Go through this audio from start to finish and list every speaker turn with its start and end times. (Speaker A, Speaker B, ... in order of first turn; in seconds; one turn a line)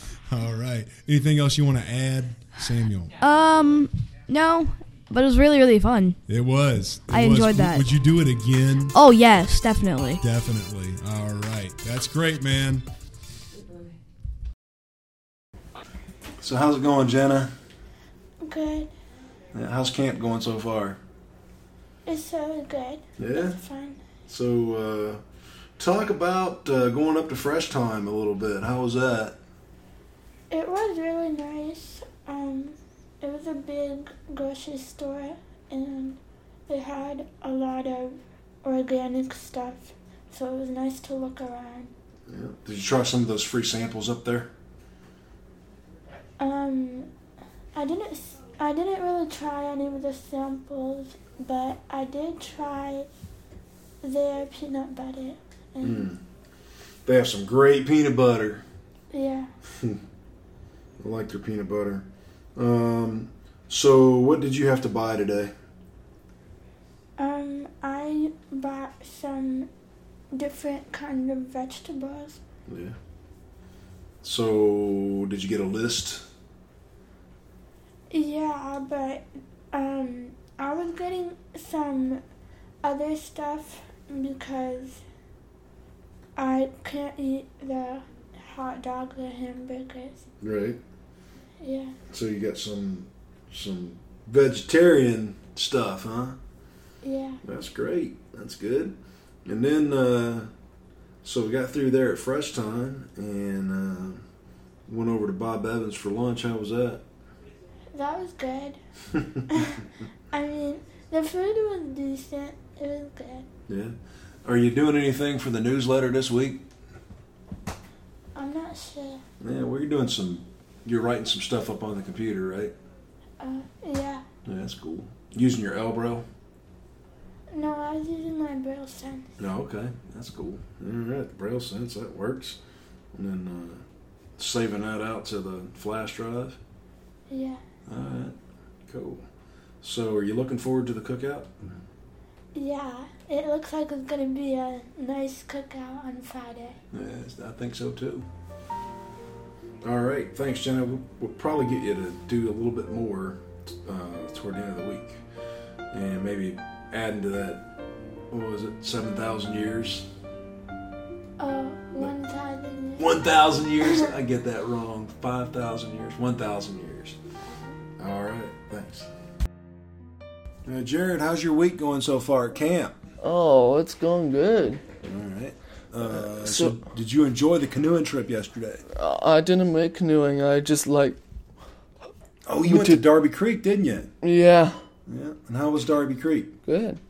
Speaker A: 0.3-3.1
Speaker B: 3.2-6.2
Speaker A: 6.3-8.9
Speaker B: 7.1-7.9
Speaker B: 8.9-10.2
Speaker A: 10.2-12.8
Speaker C: 16.4-17.5
Speaker D: 18.4-18.9
Speaker C: 19.5-21.0
Speaker D: 22.1-24.2
Speaker C: 23.2-23.6
Speaker C: 24.2-25.2
Speaker C: 25.8-29.4
Speaker D: 30.5-41.9
Speaker C: 42.3-44.5
Speaker D: 46.4-47.1
Speaker D: 47.7-53.1
Speaker D: 54.0-56.1
Speaker C: 55.8-56.2
Speaker C: 57.0-58.6
Speaker D: 59.1-59.5
Speaker C: 61.0-62.0
Speaker C: 62.5-65.5
Speaker D: 67.2-69.7
Speaker D: 70.3-72.4
Speaker C: 72.7-73.0
Speaker C: 74.2-76.2
Speaker D: 78.1-82.2
Speaker D: 82.8-85.0
Speaker D: 86.3-90.3
Speaker C: 90.4-90.8
Speaker D: 91.6-92.0
Speaker C: 92.1-96.4
Speaker D: 97.0-97.4
Speaker C: 97.4-98.9
Speaker C: 99.5-100.5
Speaker C: 101.2-104.2
Speaker C: 104.9-107.0
Speaker D: 107.9-108.8
Speaker D: 109.5-109.8
Speaker D: 110.3-113.5
Speaker C: 113.7-116.6
Speaker D: 118.3-119.2
Speaker C: 119.4-122.7
Speaker D: 123.4-124.2
Speaker C: 124.5-126.2
Speaker D: 127.5-129.3
Speaker C: 129.4-132.6
Speaker C: 133.1-133.8
Speaker C: 134.4-136.6
Speaker D: 137.3-137.6
Speaker C: 137.9-138.3
Speaker C: 138.9-139.2
Speaker C: 139.8-141.8
Speaker D: 142.5-146.8
Speaker C: 146.9-148.2
Speaker C: 149.8-155.2
Speaker C: 155.9-157.6
Speaker C: 158.3-160.1
Speaker D: 161.4-164.1
Speaker C: 163.0-167.2
Speaker C: 168.0-169.1
Speaker C: 170.7-173.0
Speaker E: 173.2-174.8
Speaker C: 175.0-178.8
Speaker E: 176.0-176.8
Speaker E: 178.9-181.2
Speaker C: 182.4-184.1
Speaker E: 182.6-183.0
Speaker E: 184.2-184.8
Speaker C: 185.1-186.6
Speaker E: 186.6-187.0